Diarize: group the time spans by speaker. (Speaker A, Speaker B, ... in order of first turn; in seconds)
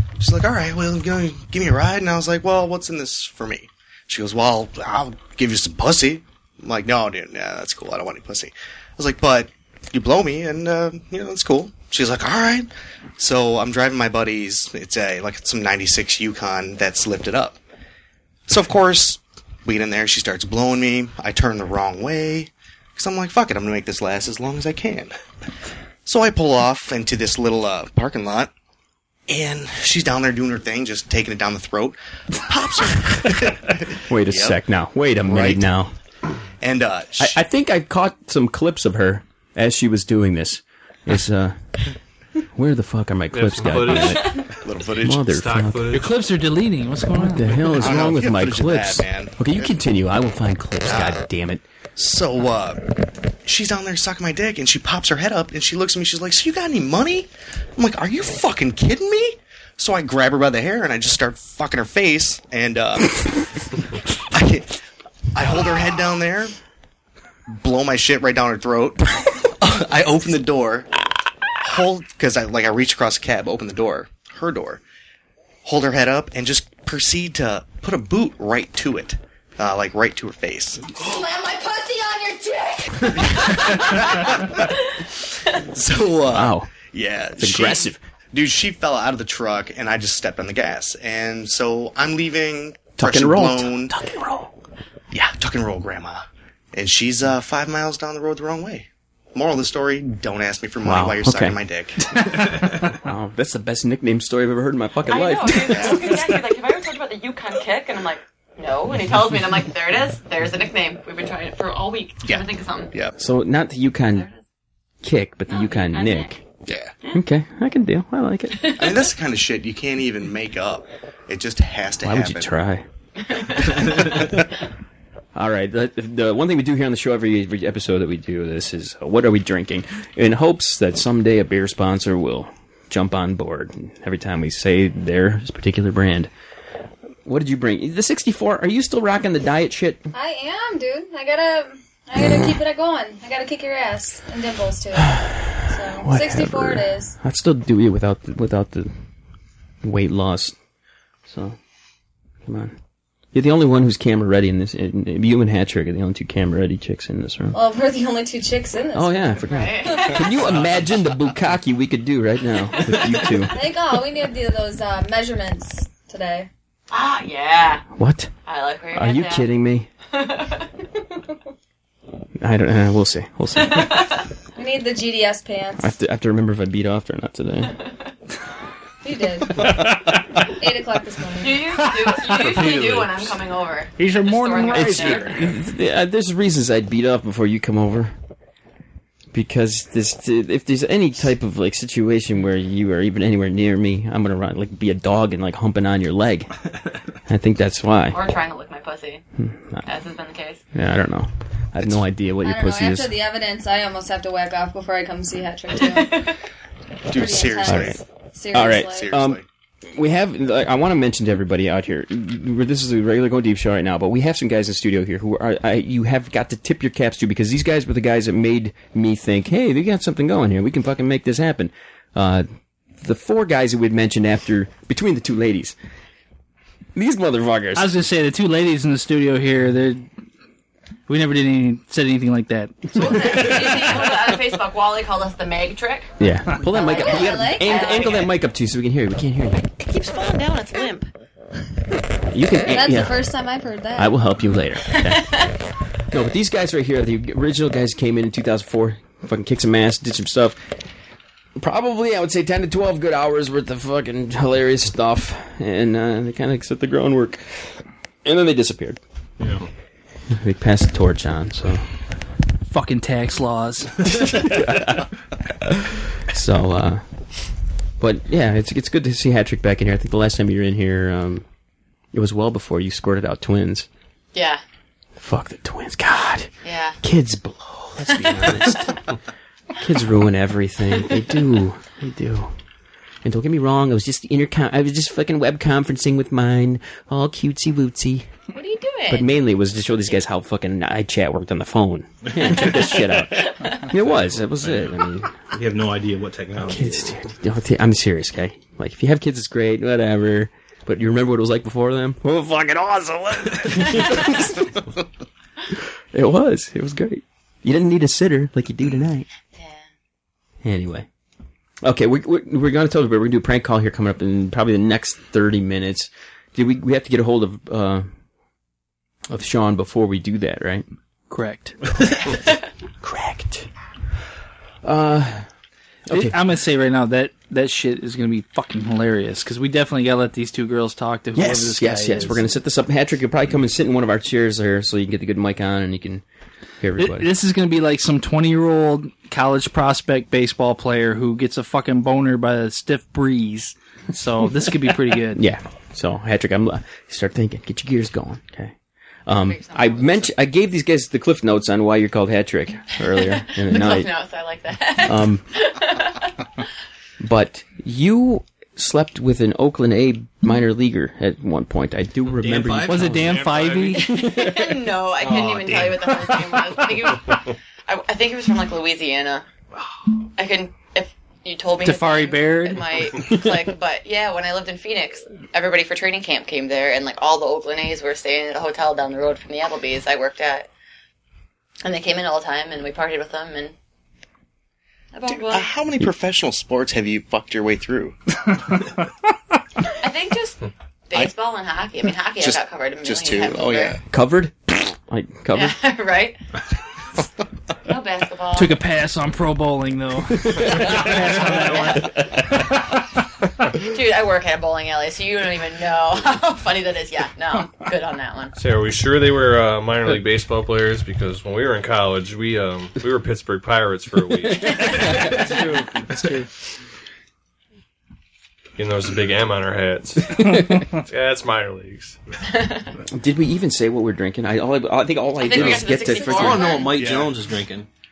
Speaker A: 0.2-17.6, 18.5-25.1, 26.1-28.5, 29.3-34.6, 35.2-35.6, 36.6-37.4, 44.6-45.2, 47.8-49.8, 50.8-51.2, 52.0-63.5, 64.3-64.8, 65.3-66.5, 67.5-70.9, 71.6-74.8, 75.6-81.2, 83.1-84.5, 85.6-93.9, 95.1-102.1, 105.8-106.1, 112.2-113.2, 116.7-116.9, 118.8-122.5, 123.8-124.2, 207.1-208.0, 208.6-209.4, 278.0-278.9, 385.3-388.2, 392.4-394.0, 426.1-427.4
Speaker B: 34.1-35.9, 37.2-41.5, 42.5-44.4, 45.0-45.9, 47.1-51.6, 86.3-86.7, 87.4-88.0, 93.0-94.5, 100.8-101.6, 102.9-106.2, 113.2-114.3, 115.0-116.4, 117.1-118.7, 122.0-122.8, 125.3-136.3, 137.2-140.1, 142.2-142.5, 145.0-148.9, 149.8-150.5, 151.3-151.6, 152.4-152.7, 153.3-157.6, 158.9-163.6, 168.0-168.3, 168.9-169.9, 172.4-174.2, 175.8-177.8, 184.7-188.1, 189.3-196.5, 197.2-198.2, 199.4-199.8, 200.7-203.2, 207.6-208.0, 208.5-222.4, 223.0-225.8, 226.9-227.9, 236.2-239.6, 242.3-243.2, 243.9-245.5, 246.1-250.6, 251.6-257.6, 258.2-259.0, 260.3-261.8, 264.1-267.0, 268.0-271.4, 272.1-273.9, 275.2-278.9, 279.8-282.5, 283.2-288.3, 289.1-295.4, 296.6-304.9, 306.1-309.3, 310.6-311.1, 311.8-318.1, 319.3-320.8, 323.0-323.7, 324.8-325.5, 326.1-326.4, 331.3-336.2, 336.8-337.3, 345.3-348.7, 349.3-354.1, 355.0-355.4, 357.2-363.4, 394.1-395.7, 423.1-426.7
Speaker C: 43.3-44.4, 45.2-46.1, 182.4-183.2, 363.2-364.0, 408.6-416.0, 418.8-422.2
Speaker D: 44.0-44.4, 81.2-82.9, 83.5-84.1, 105.1-112.9, 115.5-116.3, 118.5-119.0, 123.3-123.9, 159.4-160.2, 162.7-163.3, 166.9-167.8, 168.4-169.5, 170.1-170.8, 173.6-174.3, 181.4-185.4, 198.1-199.2, 199.8-200.6, 205.8-206.3, 232.9-238.3, 239.5-241.1, 244.9-245.5, 274.3-274.6, 276.6-277.0, 288.5-289.4, 292.6-292.9, 293.4-293.8, 309.5-309.8, 349.4-350.3, 353.1-356.6, 363.9-369.4, 370.4-380.7, 381.8-383.7, 385.1-385.7, 390.0-394.0, 395.5-396.4, 397.9-398.8, 400.8-402.1, 403.8-408.5, 422.5-422.9, 425.4-426.9
Speaker E: 45.9-47.8, 182.1-182.7, 184.0-185.5, 227.7-230.1, 231.1-233.5, 262.7-264.1, 321.3-321.8, 326.1-332.4, 336.9-345.4, 362.8-364.4, 371.8-373.0, 398.5-402.5, 415.2-416.4
Speaker F: 140.1-147.1, 157.5-159.4, 163.5-166.5, 174.6-175.9, 179.0-179.7, 180.4-181.6, 202.4-206.3, 207.1-209.1, 236.7-237.9, 242.7-244.1
Speaker G: 160.4-160.9, 259.4-259.7, 292.3-292.8, 293.9-295.0, 295.5-297.2, 362.3-363.7, 365.2-366.1, 426.2-427.9